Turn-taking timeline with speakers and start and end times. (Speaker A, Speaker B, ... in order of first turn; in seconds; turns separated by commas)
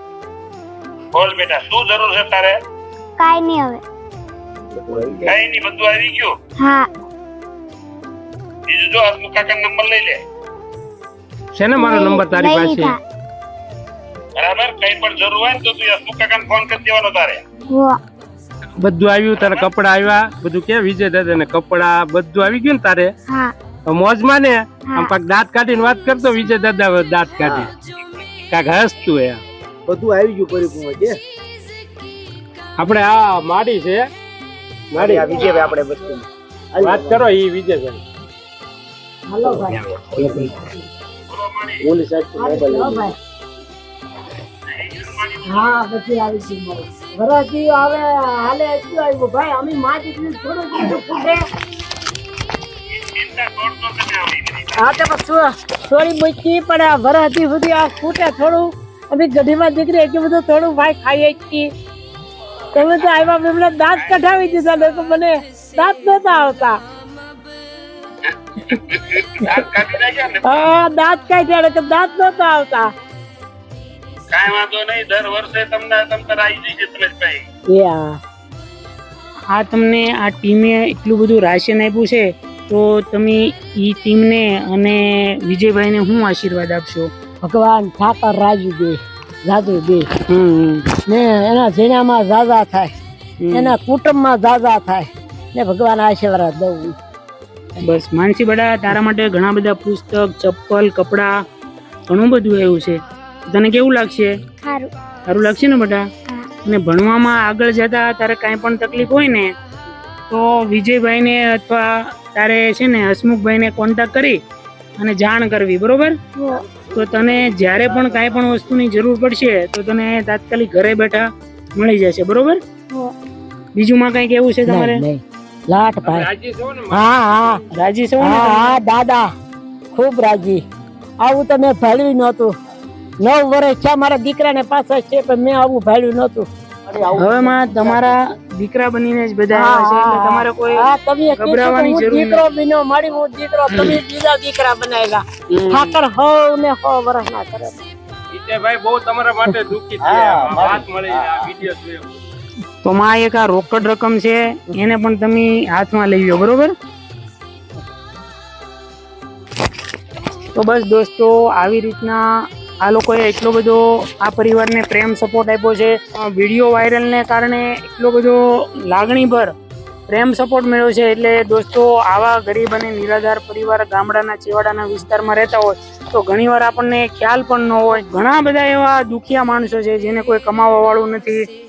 Speaker A: 1.1-2.6, Speaker B: 3.2-3.8, Speaker C: 4.9-5.3, Speaker A: 5.2-6.4, Speaker B: 6.6-6.9, Speaker A: 8.7-10.2, Speaker D: 11.5-12.9, Speaker B: 11.8-13.0, Speaker A: 14.3-17.4, Speaker B: 17.7-18.0, Speaker D: 18.8-23.1, Speaker B: 23.3-23.5, Speaker D: 23.9-27.7, Speaker B: 24.9-25.1, Speaker C: 27.4-27.7, Speaker D: 28.5-29.4, Speaker C: 29.9-31.2, Speaker D: 32.8-34.1, Speaker D: 34.9-35.4, Speaker C: 35.0-36.2, Speaker C: 36.8-37.2, Speaker D: 36.8-38.0, Speaker E: 39.3-40.9, Speaker A: 41.3-41.9, Speaker C: 41.9-43.0, Speaker E: 42.3-43.1, Speaker A: 44.7-45.6, Speaker E: 45.4-51.5, Speaker A: 52.9-54.8, Speaker E: 54.8-61.7, Speaker E: 62.7-66.8, Speaker A: 69.0-70.6, Speaker E: 70.4-72.9, Speaker A: 74.3-77.4, Speaker E: 77.7-78.2, Speaker F: 79.5-87.1, Speaker E: 87.4-90.1, Speaker F: 90.3-90.8, Speaker E: 91.0-92.9, Speaker F: 93.4-93.7, Speaker E: 93.5-96.9, Speaker F: 97.8-101.3, Speaker F: 102.1-104.3, Speaker B: 104.6-104.9, Speaker F: 105.2-106.0, Speaker F: 106.6-109.5, Speaker F: 110.3-114.4, Speaker F: 115.0-116.2, Speaker B: 116.3-116.6, Speaker F: 116.9-122.6, Speaker F: 123.7-125.0, Speaker E: 124.7-126.3, Speaker D: 126.0-127.0, Speaker E: 126.9-127.6, Speaker F: 127.7-128.8, Speaker E: 128.2-129.3, Speaker E: 129.9-130.6, Speaker E: 131.2-132.6, Speaker E: 133.2-136.5, Speaker C: 136.9-138.0, Speaker F: 137.1-142.5, Speaker E: 139.5-147.8, Speaker D: 148.3-152.2, Speaker C: 150.0-151.3, Speaker F: 152.8-156.7, Speaker F: 160.5-162.2, Speaker F: 162.8-169.5, Speaker F: 170.1-181.5